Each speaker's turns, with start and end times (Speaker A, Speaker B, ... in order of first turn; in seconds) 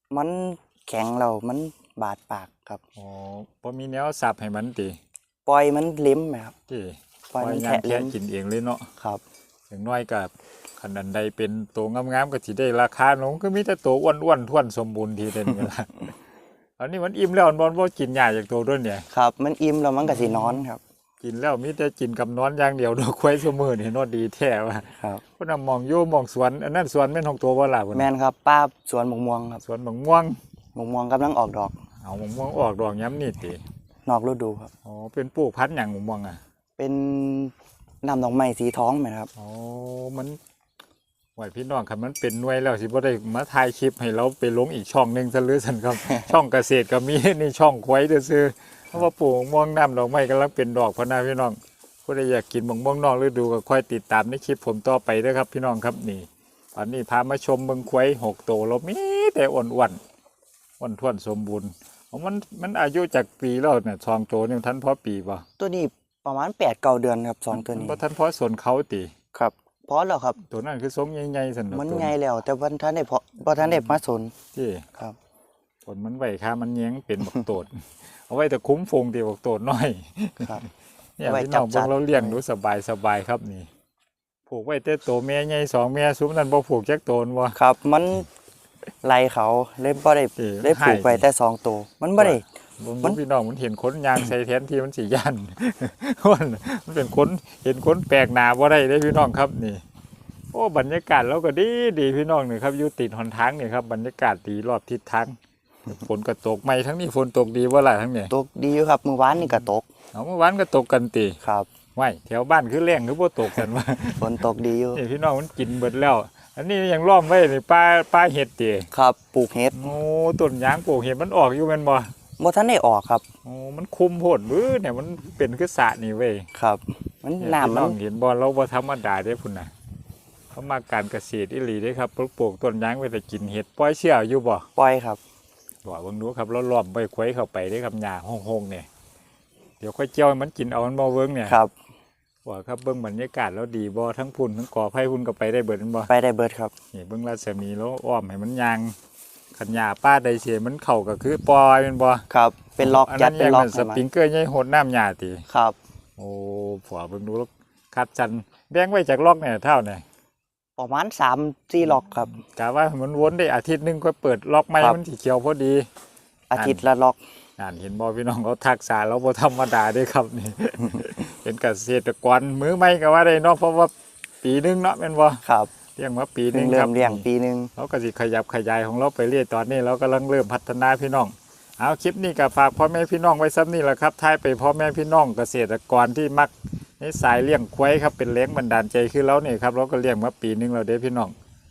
Speaker A: 0.1-2.8, 5.5-6.5, 7.3-8.1, 19.1-20.8, 27.9-29.6, 30.8-31.7, 34.1-34.7, 36.8-39.3, 65.6-68.0, 69.3-70.4, 71.7-74.3, 81.2-82.4, 87.5-88.3, 89.0-92.4, 108.3-109.8, 111.4-111.7, 114.2-115.0, 118.9-119.8, 122.4-123.2, 126.5-128.0, 134.8-135.2, 146.1-146.7, 152.3-154.0, 155.5-155.8, 160.8-162.3, 166.5-167.2, 175.4-175.7, 176.5-177.7
Speaker B: 3.0-5.0, 6.7-8.9, 9.7-16.1, 16.8-19.1, 20.1-20.6, 21.2-28.1, 29.6-30.4, 32.0-33.6, 34.9-36.4, 39.4-40.4, 41.4-60.0, 60.8-65.4, 67.5-69.1, 70.5-72.1, 73.6-73.9, 74.5-74.8, 75.9-83.7, 84.5-87.5, 90.4-91.2, 92.2-99.8, 100.5-105.4, 105.9-108.3, 109.4-111.4, 112.0-114.4, 114.9-118.9, 119.7-122.1, 123.5-126.5, 127.4-129.7, 130.5-134.7, 135.8-138.9, 139.8-141.6, 142.4-146.1, 146.9-148.9, 149.6-152.2, 152.8-155.4, 156.2-160.0, 162.3-165.9, 166.6-166.8, 167.6-173.9, 174.4-175.4, 175.9-191.3